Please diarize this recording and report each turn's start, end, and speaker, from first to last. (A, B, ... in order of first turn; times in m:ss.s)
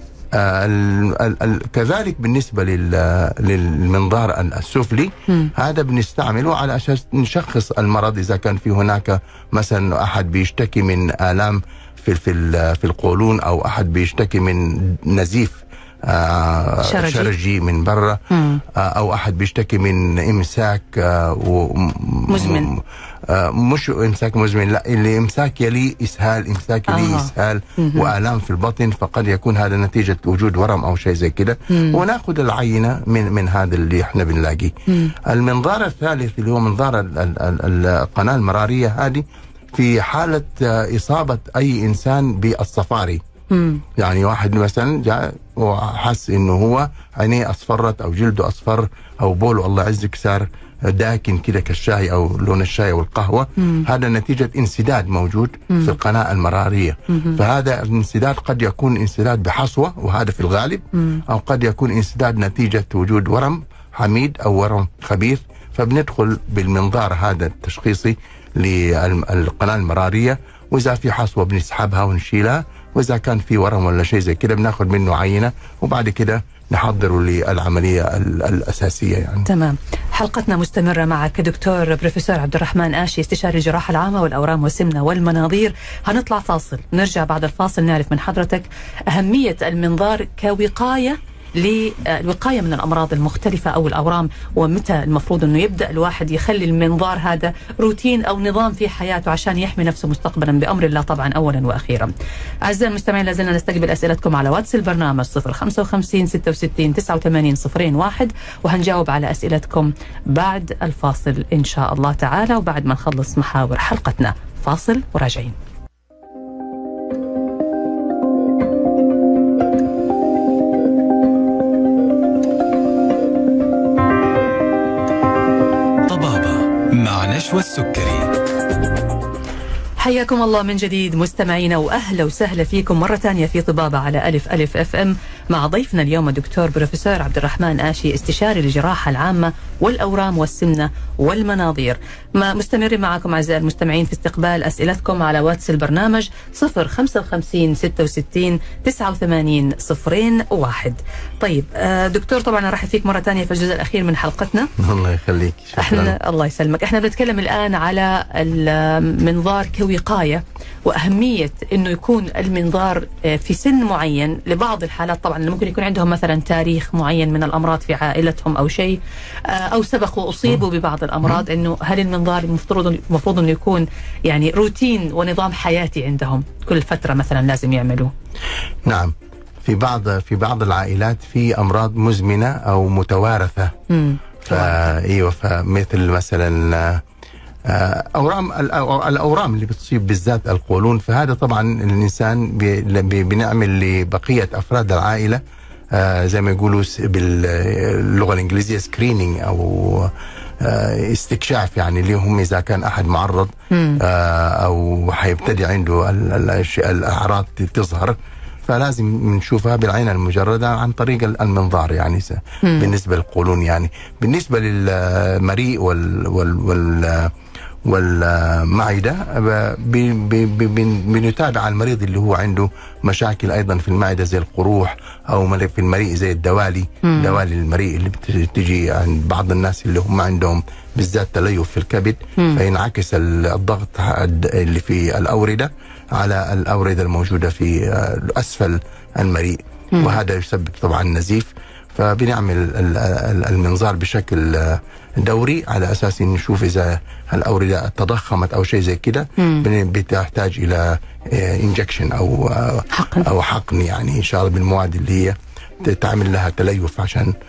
0:00.3-0:43.2 A
0:16.8-0:17.3 B
0:18.3-0:18.6 B
0:22.3-0:22.7 B
0:26.9-0:28.1 B
0:31.7-0:32.0 B
0:34.9-0:35.1 B
0:43.5-0:43.8 B
0:44.0-1:19.5 A
0:53.6-0:53.9 B
0:57.1-0:57.4 B
1:19.5-1:42.1 B
1:42.6-1:55.6 B
2:06.1-2:08.3 C
2:10.0-2:34.7 B
2:34.8-2:36.2 A
2:35.8-2:58.1 B
2:58.8-3:03.7 A
3:03.9-3:04.9 B
3:04.4-3:07.0 A
3:07.7-3:37.3 A
3:23.7-3:24.0 B
3:32.6-3:32.9 B
3:37.8-4:17.3 A
3:47.0-3:47.4 B
4:09.4-4:09.6 B
4:12.9-4:13.3 B